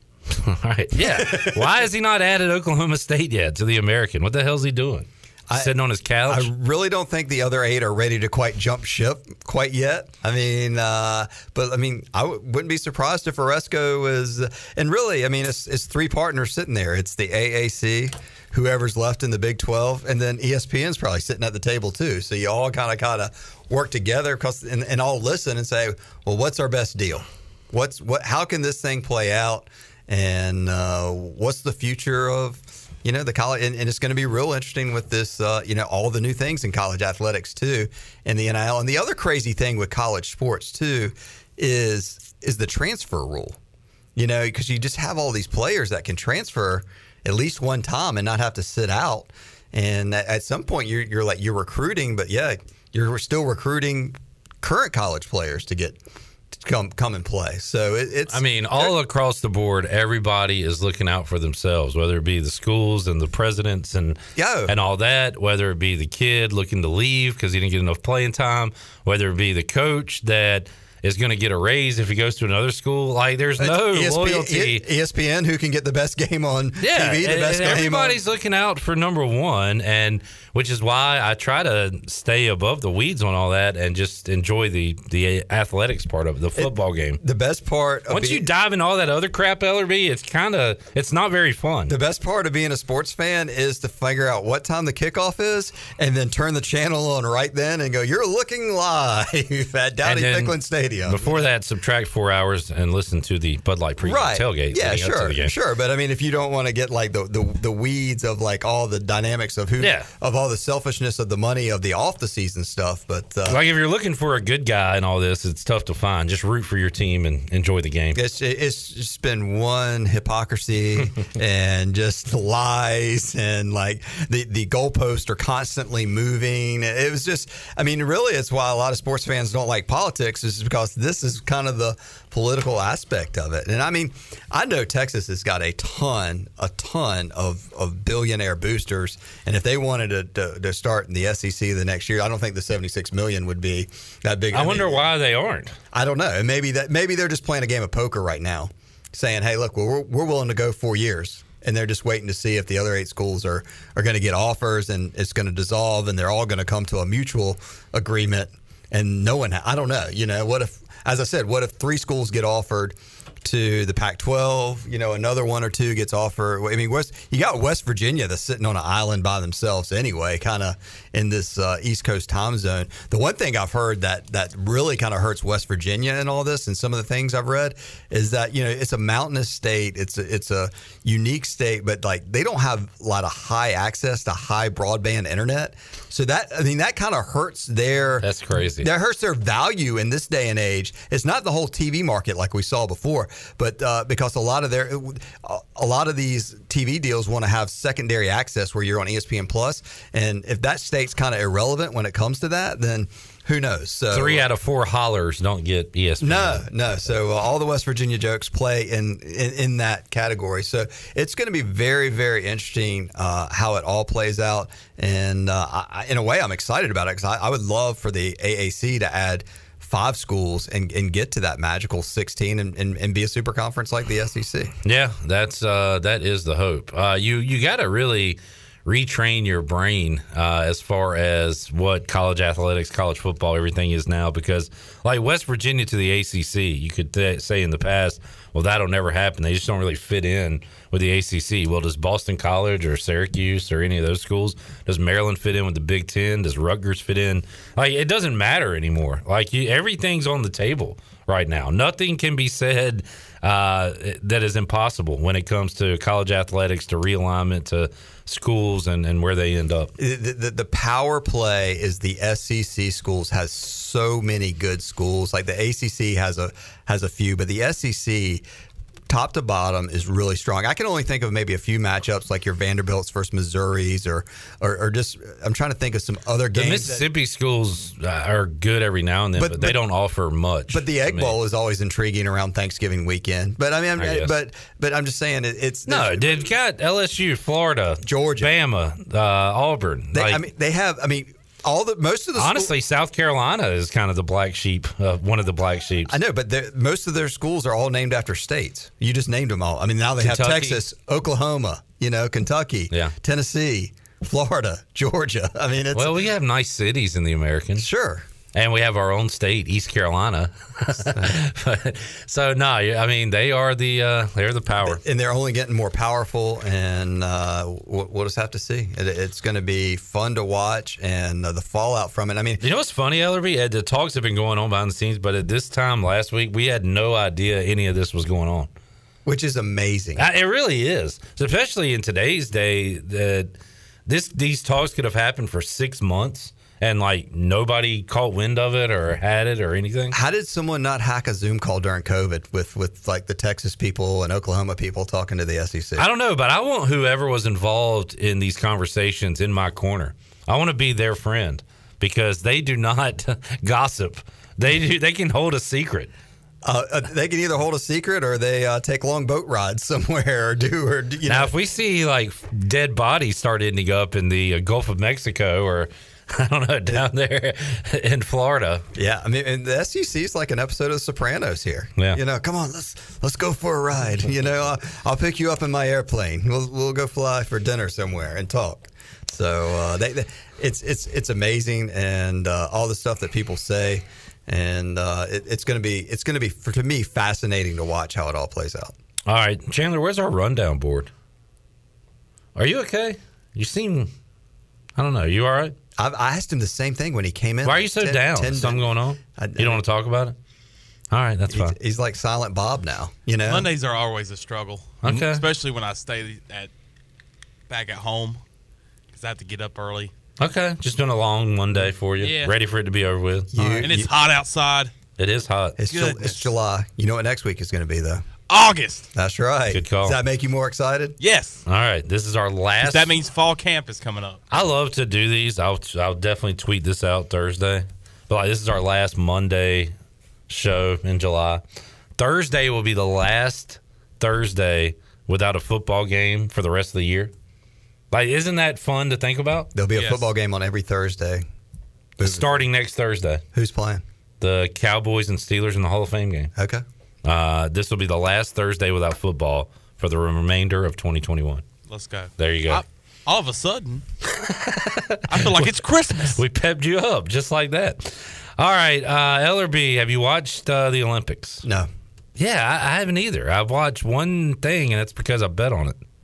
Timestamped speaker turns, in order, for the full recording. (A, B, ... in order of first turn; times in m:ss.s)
0:00.3-0:06.5 A
0:01.0-0:01.7 B
0:06.3-0:43.6 B
0:44.2-0:56.0 B
0:56.5-0:58.9 B
0:58.3-1:14.8 A
1:04.4-1:04.7 B
1:13.6-1:18.2 B
1:16.8-1:27.2 A
1:26.6-1:28.5 B
1:28.1-1:32.0 A
1:31.9-1:41.4 B
1:40.0-1:45.5 A
1:44.0-1:53.6 B
1:49.8-1:50.1 A
1:53.5-1:58.2 A
1:58.2-2:25.1 B
2:24.5-2:25.8 A
2:25.9-3:24.5 B
3:08.2-3:08.9 A
3:24.1-3:26.7 A
3:26.2-3:44.7 B
3:44.8-4:19.9 A
4:20.0-4:28.4 B
4:29.1-4:37.1 B
4:36.5-4:41.4 A
4:39.4-4:39.8 B
4:40.7-4:46.5 B
4:44.0-4:44.4 A
4:45.9-4:50.4 A
4:48.0-4:48.6 B
4:50.1-4:52.7 B
4:52.4-4:56.1 A
4:56.1-5:06.2 B
5:00.2-5:00.8 A
5:05.9-5:07.9 A
5:07.8-5:08.3 B
5:08.5-5:15.0 A
5:11.0-5:11.4 B
5:14.8-5:22.6 B
5:22.6-5:28.7 A
5:29.3-5:30.3 B
5:30.2-5:33.6 A
5:34.1-5:40.2 A
5:40.1-5:46.1 B
5:46.0-5:56.1 A
5:56.6-6:01.5 B
6:01.3-6:08.8 A
6:09.0-6:29.0 B
6:29.3-6:31.1 A
6:32.6-6:34.1 A
6:35.0-6:35.8 A
6:36.0-6:39.8 B
6:37.6-6:40.4 A
6:41.1-6:41.8 A
6:41.5-6:43.7 B
6:43.4-6:46.7 C
6:45.0-6:45.4 A
6:47.7-6:48.4 C
6:49.1-6:50.1 C
6:50.4-6:53.8 A
6:52.2-6:52.6 C
6:53.5-6:54.1 B
6:53.6-6:54.9 C
6:55.2-6:55.8 A
6:55.8-6:58.2 B
6:55.9-6:56.5 C
6:58.5-6:59.1 C
6:59.1-7:01.2 B
6:59.7-7:00.2 A
7:01.2-7:01.6 C
7:01.6-7:03.1 A
7:02.8-7:04.4 C
7:04.5-7:09.9 A
7:10.5-7:11.6 A
7:12.2-7:17.3 A
7:18.1-7:19.7 A
7:19.7-7:21.5 B
7:20.0-7:20.2 C
7:22.2-7:22.6 B
7:22.2-7:23.4 A
7:23.5-7:24.0 B
7:24.4-7:26.5 A
7:26.6-7:26.8 B
7:27.2-7:31.6 A
7:31.9-7:34.0 C
7:32.4-7:32.8 A
7:34.4-7:35.8 A
7:35.3-7:36.4 C
7:36.3-7:41.6 A
7:41.6-7:41.9 B
7:42.4-7:46.0 A